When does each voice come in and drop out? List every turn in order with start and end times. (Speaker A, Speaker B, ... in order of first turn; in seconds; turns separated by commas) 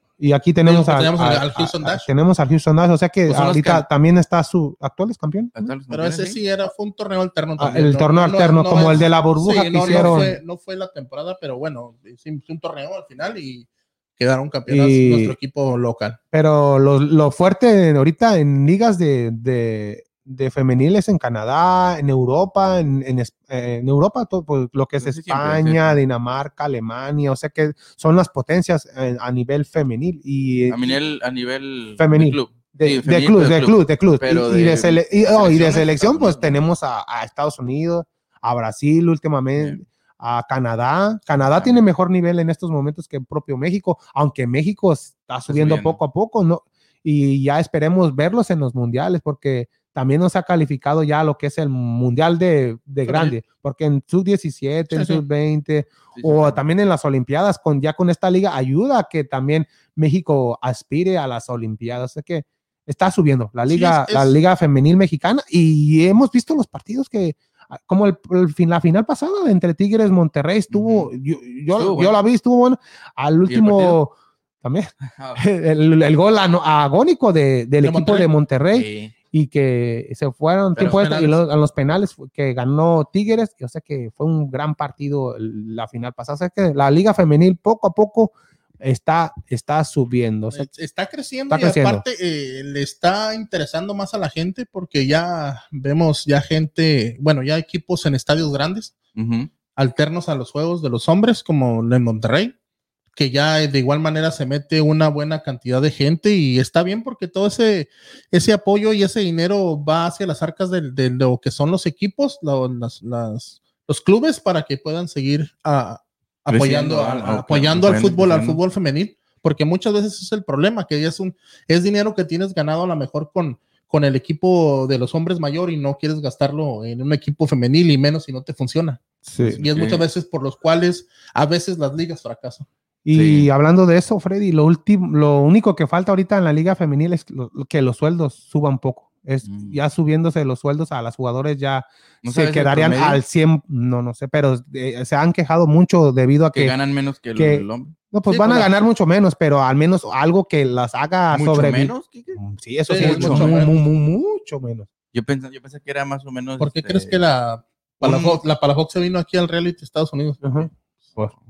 Speaker A: 0.2-5.7, Speaker B: 0.7-2.1, Speaker C: 3.3-3.9, Speaker C: 5.5-6.4, Speaker B: 5.9-16.2, Speaker A: 7.6-10.4, Speaker C: 9.8-10.3, Speaker A: 14.7-15.4, Speaker A: 16.3-31.0, Speaker C: 25.0-26.0, Speaker C: 30.7-36.6, Speaker A: 32.0-90.7, Speaker C: 41.5-41.8, Speaker C: 45.5-46.0, Speaker B: 53.1-53.4, Speaker B: 54.9-55.2, Speaker C: 56.1-56.6, Speaker B: 63.7-64.4, Speaker C: 70.7-71.1, Speaker C: 71.7-72.2, Speaker C: 73.5-74.0, Speaker C: 75.1-75.4, Speaker B: 77.8-78.3, Speaker C: 78.7-79.1, Speaker C: 80.8-81.1, Speaker B: 80.9-81.4, Speaker B: 90.5-99.0, Speaker A: 91.5-92.0, Speaker C: 99.2-99.5, Speaker B: 99.8-102.5, Speaker B: 103.2-129.0, Speaker C: 116.5-118.6, Speaker A: 129.3-129.6, Speaker C: 129.4-130.1, Speaker B: 129.6-132.7, Speaker A: 133.1-146.8, Speaker C: 133.1-133.5, Speaker C: 139.4-139.8, Speaker C: 142.2-143.2, Speaker C: 146.5-147.9, Speaker A: 147.3-154.9, Speaker B: 148.3-148.7, Speaker C: 151.3-152.4, Speaker B: 152.9-153.8, Speaker C: 152.9-153.6, Speaker C: 155.1-157.2, Speaker B: 156.6-160.6, Speaker C: 158.0-158.4, Speaker A: 160.4-161.3